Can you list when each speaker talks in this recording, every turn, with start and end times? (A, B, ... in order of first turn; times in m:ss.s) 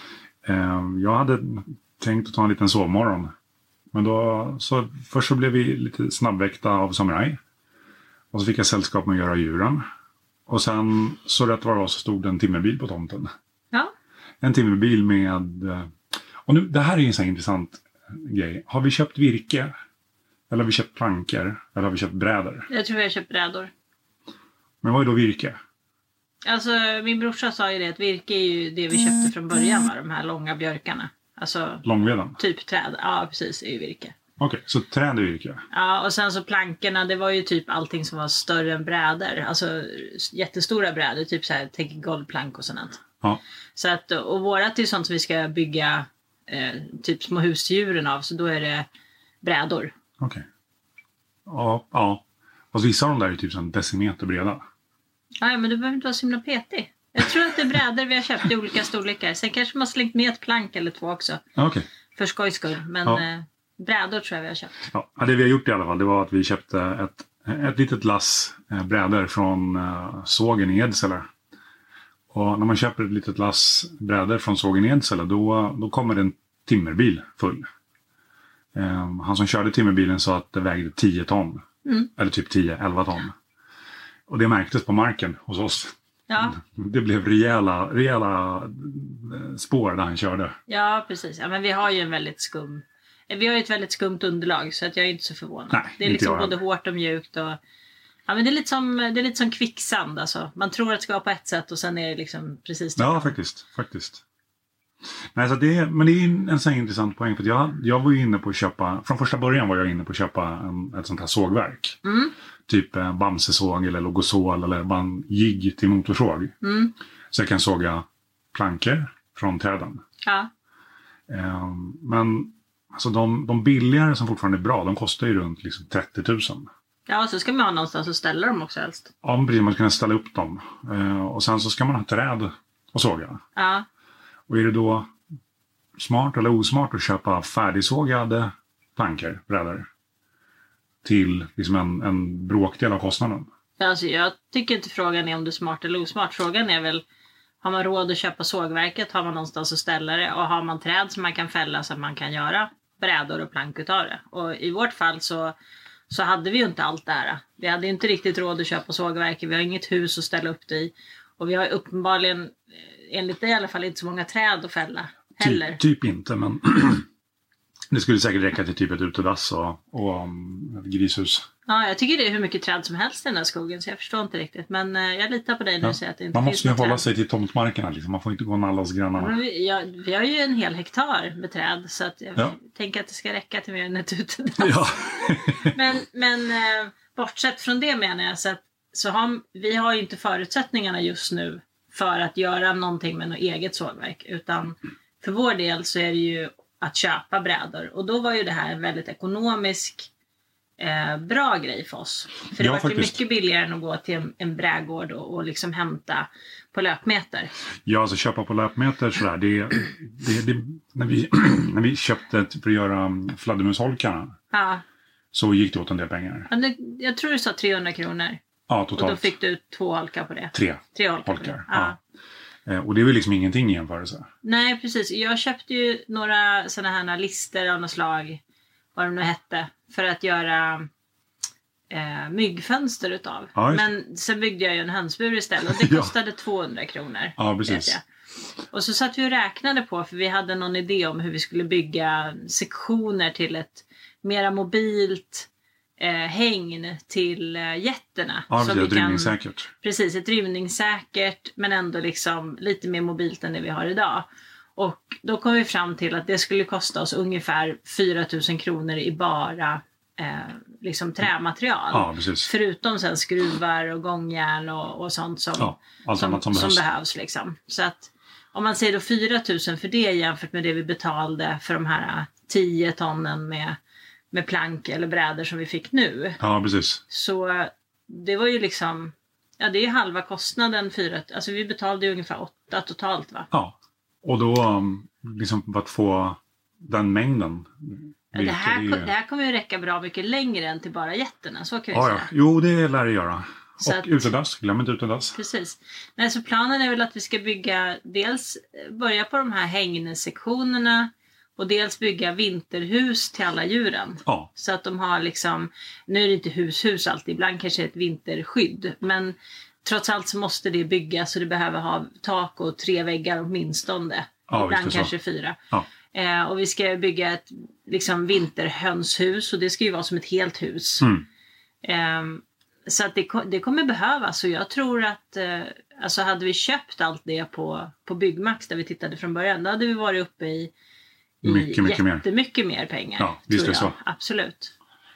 0:00.4-0:03.3 A
0:03.9-0:07.4 A
0:08.3-0:09.8 A
0:10.5-0:13.3 A
0:14.4-0:19.7 A
0:20.5-0:22.7 A
0:22.7-0:23.7 B
0:24.8-0:25.6 A
0:26.4-0:31.8 B
0:31.8-0:32.4 A
0:32.4-0:34.2 B
0:34.4-0:35.6 A
0:35.7-0:43.0 B
0:43.8-0:48.9 B
0:49.4-0:49.9 B
0:50.2-0:50.4 A
0:51.5-0:54.6 A
0:55.4-1:01.4 B
1:01.6-1:01.9 A
1:02.2-1:04.8 B
1:04.9-1:11.3 A
1:12.3-1:17.6 A
1:18.7-1:21.6 A
1:21.8-1:22.1 B
1:22.2-1:23.3 A
1:24.3-1:30.6 A
1:26.3-1:26.6 B
1:30.7-1:37.6 B
1:35.7-1:36.5 A
1:38.3-1:43.4 B
1:43.0-1:44.2 A
1:45.3-1:52.0 A
1:52.0-1:52.3 B
1:52.7-1:56.5 A
1:56.6-1:56.9 B
1:57.3-2:00.0 A
2:00.2-2:00.5 B
2:01.3-2:06.7 A
2:07.1-2:09.1 B
2:09.2-2:13.4 A
2:13.6-2:13.9 B
2:14.5-2:15.1 A
2:16.0-2:19.9 A
2:21.0-2:23.5 A
2:23.8-2:27.0 B
2:27.6-2:35.6 B
2:36.1-2:45.8 B
2:45.4-2:47.1 A
2:47.9-2:51.5 A
2:51.7-2:57.0 B
2:55.8-2:59.4 A
2:59.2-3:20.1 B
3:04.6-3:05.8 A
3:20.8-3:27.5 B
3:22.6-3:23.2 A
3:27.9-3:34.4 A
3:34.5-3:34.8 B
3:35.3-3:36.5 A
3:36.5-3:38.4 B
3:38.7-3:39.3 A
3:39.0-3:42.0 B
3:40.5-3:42.0 A
3:42.7-3:44.3 A
3:44.4-3:48.4 B
3:49.0-3:50.9 B
3:51.9-3:58.0 B
3:53.6-3:53.9 A
3:55.7-3:56.1 A
3:57.4-3:58.0 A
3:58.7-4:05.5 B
4:06.0-4:33.8 B
4:08.5-4:09.7 A
4:21.9-4:22.5 A
4:25.6-4:26.8 A
4:34.3-4:36.4 B
4:36.4-4:37.0 A
4:37.1-4:43.5 B
4:43.5-4:49.1 A
4:48.3-4:52.3 B
4:51.9-4:55.4 A
4:53.8-4:54.3 B
4:55.4-5:15.6 B
5:14.5-5:15.1 A
5:16.1-5:21.1 B
5:21.0-5:21.3 A
5:21.8-5:30.7 B
5:31.4-5:34.7 B
5:31.4-5:32.2 A
5:33.2-5:34.0 A